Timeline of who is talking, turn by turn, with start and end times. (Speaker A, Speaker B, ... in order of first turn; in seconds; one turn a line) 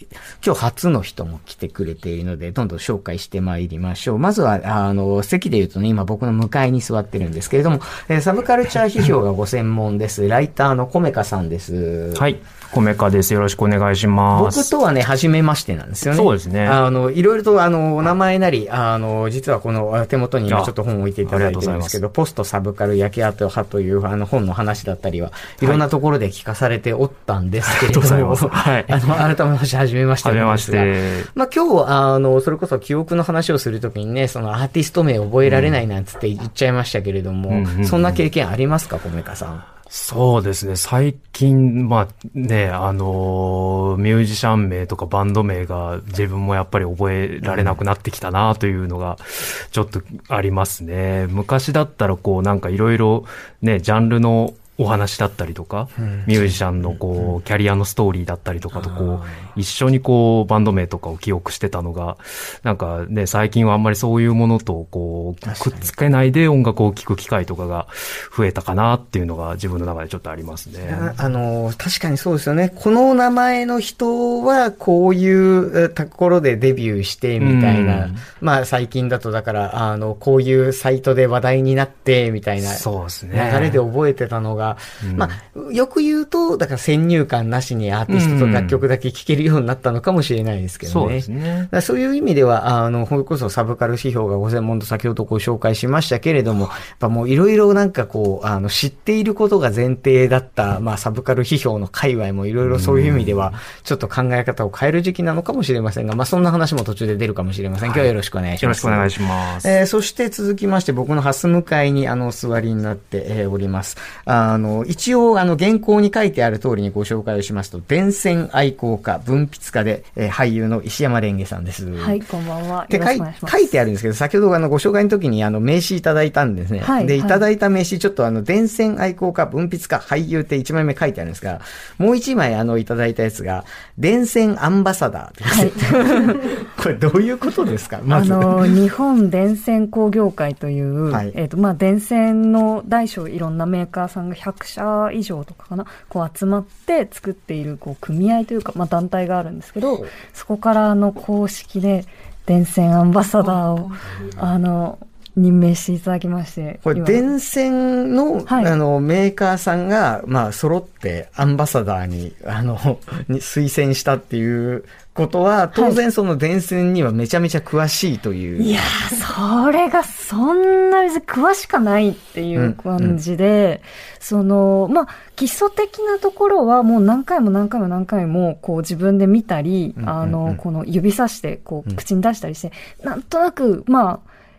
Speaker A: 0.4-12.2
Speaker B: 12.1-14.7
Speaker A: 14.3-39.6
Speaker B: 16.1-16.8
Speaker B: 20.5-20.7
Speaker B: 21.3-22.0
Speaker B: 27.7-29.0
Speaker B: 30.2-31.3
Speaker B: 35.4-35.8
Speaker B: 37.5-38.2
Speaker B: 39.9-71.1
Speaker A: 47.4-47.8
Speaker A: 58.7-59.4
Speaker A: 65.4-65.9
Speaker A: 70.9-122.2
Speaker B: 77.4-78.2
Speaker B: 82.6-83.8
Speaker B: 85.0-85.3
Speaker B: 88.1-88.8
Speaker B: 90.8-91.7
Speaker B: 102.7-103.4
Speaker B: 107.8-109.7
Speaker C: 122.0-123.7
Speaker A: 122.9-138.7
Speaker C: 126.8-127.4
Speaker C: 135.5-136.4
Speaker C: 138.1-157.2
Speaker A: 141.1-141.3
Speaker A: 149.8-150.1
Speaker A: 156.8-168.7
Speaker C: 158.5-158.7
Speaker C: 165.7-166.0
Speaker C: 168.6-184.2
Speaker A: 172.6-173.2
Speaker A: 180.0-180.6